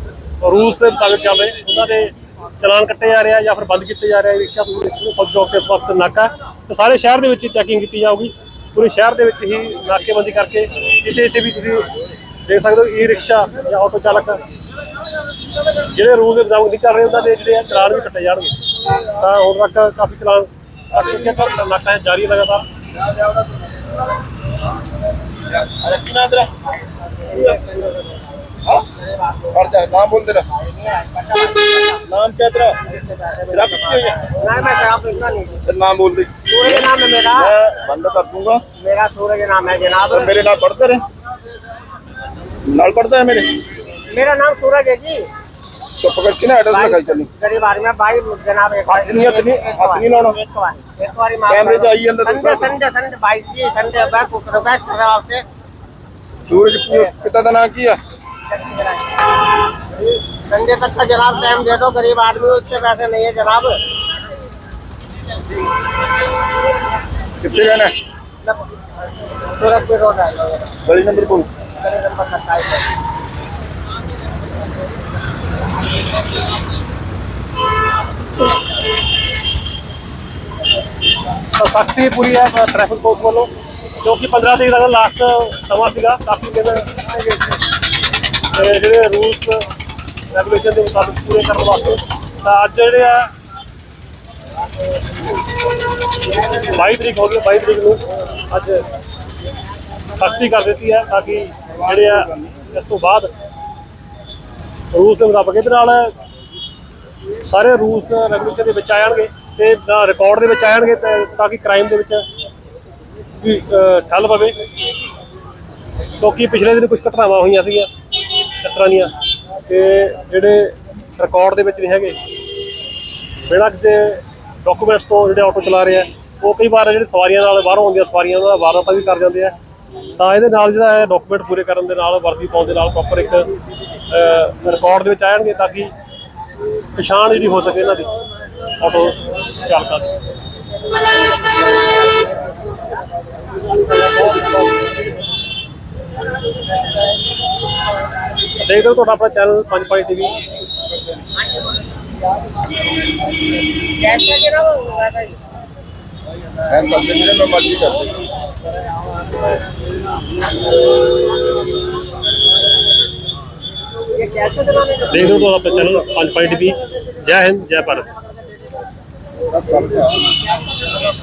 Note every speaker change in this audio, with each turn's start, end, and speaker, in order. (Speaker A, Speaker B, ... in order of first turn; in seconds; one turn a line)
Speaker A: 0.4-11.9
Speaker A: 12.4-14.4
Speaker A: 15.8-22.6
Speaker B: 25.5-26.5
Speaker C: 27.2-28.4
Speaker B: 27.3-27.6
Speaker C: 28.9-29.6
Speaker B: 29.5-30.5
Speaker C: 30.5-32.0
Speaker B: 32.0-32.8
Speaker C: 32.9-35.6
Speaker B: 33.5-34.2
Speaker B: 35.6-38.6
Speaker C: 36.5-37.5
Speaker C: 38.8-40.3
Speaker B: 40.1-41.0
Speaker B: 42.6-43.5
Speaker C: 44.1-45.3
Speaker B: 46.0-47.3
Speaker C: 46.7-55.4
Speaker B: 48.9-50.4
Speaker B: 51.5-52.7
Speaker B: 56.5-58.0
Speaker C: 58.5-59.2
Speaker C: 60.0-63.8
Speaker B: 67.4-67.9
Speaker C: 69.5-70.7
Speaker B: 70.8-71.5
Speaker C: 71.8-72.9
Speaker A: 81.5-83.5
Speaker A: 84.0-86.8
Speaker A: 88.5-89.6
Speaker A: 90.3-93.3
Speaker A: 96.5-98.8
Speaker A: 100.0-103.3
Speaker B: 101.8-102.5
Speaker A: 104.9-106.1
Speaker A: 107.4-112.2
Speaker A: 113.4-114.5
Speaker A: 116.2-117.9
Speaker A: 118.6-119.1
Speaker A: 119.7-122.2
Speaker A: 123.5-129.5
Speaker A: 130.2-133.5
Speaker A: 134.1-135.9
Speaker A: 136.9-138.1
Speaker A: 138.8-140.1
Speaker A: 148.6-150.4
Speaker C: 153.9-155.4
Speaker B: 156.7-158.2
Speaker C: 164.1-165.2
Speaker A: 165.1-168.1
Speaker B: 169.5-170.3